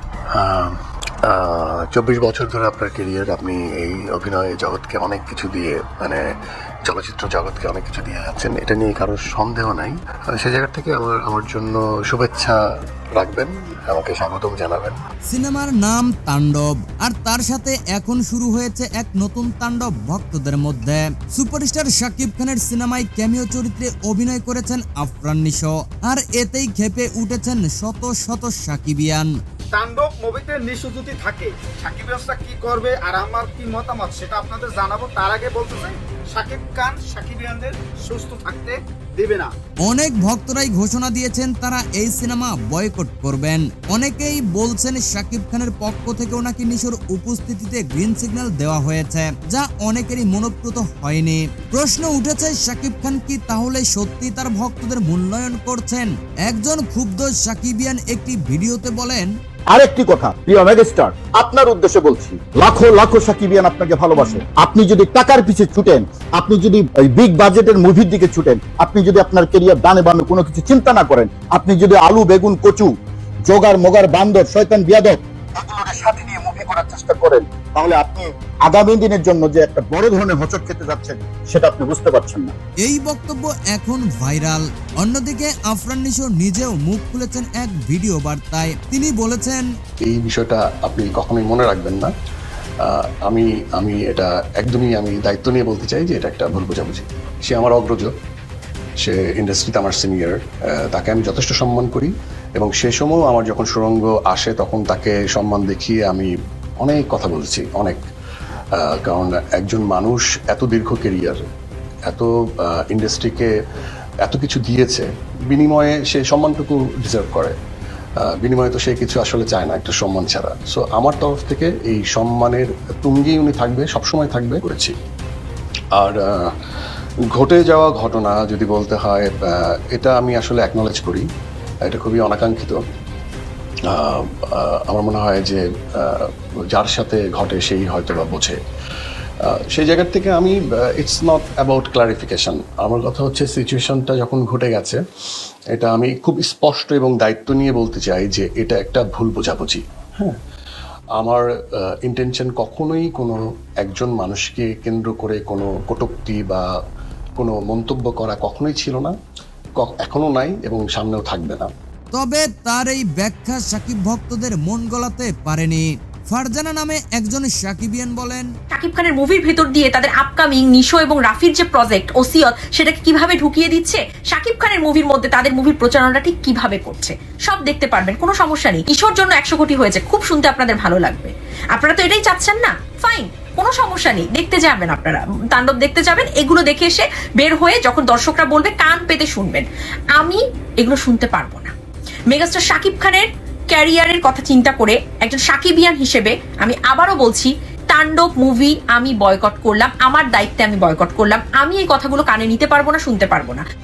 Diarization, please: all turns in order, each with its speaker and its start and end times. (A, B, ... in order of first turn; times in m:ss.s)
0:00.3-0:06.2 A
0:06.8-0:12.6 A
0:13.2-0:15.0 A
0:15.3-0:29.3 B
0:29.7-0:39.5 C
0:39.8-0:59.3 B
0:59.7-1:12.9 D
1:13.5-1:22.5 D
1:22.8-1:29.6 B
1:30.0-1:32.1 A
1:32.8-1:38.1 A
1:39.0-1:40.4 A
1:40.9-1:48.0 A
1:48.8-1:51.4 A
1:52.1-1:53.5 A
1:54.2-1:57.6 A
1:58.4-2:04.9 A
2:05.9-2:06.5 A
2:07.3-2:11.2 A
2:11.8-2:12.8 A
2:13.9-2:18.6 A
2:19.5-2:25.0 A
2:25.7-2:30.4 A
2:31.2-2:31.4 A
2:32.0-2:36.6 A
2:37.4-2:39.1 A
2:39.8-2:41.7 A
2:42.1-2:48.4 B
2:48.7-3:11.7 E
3:12.3-3:23.6 E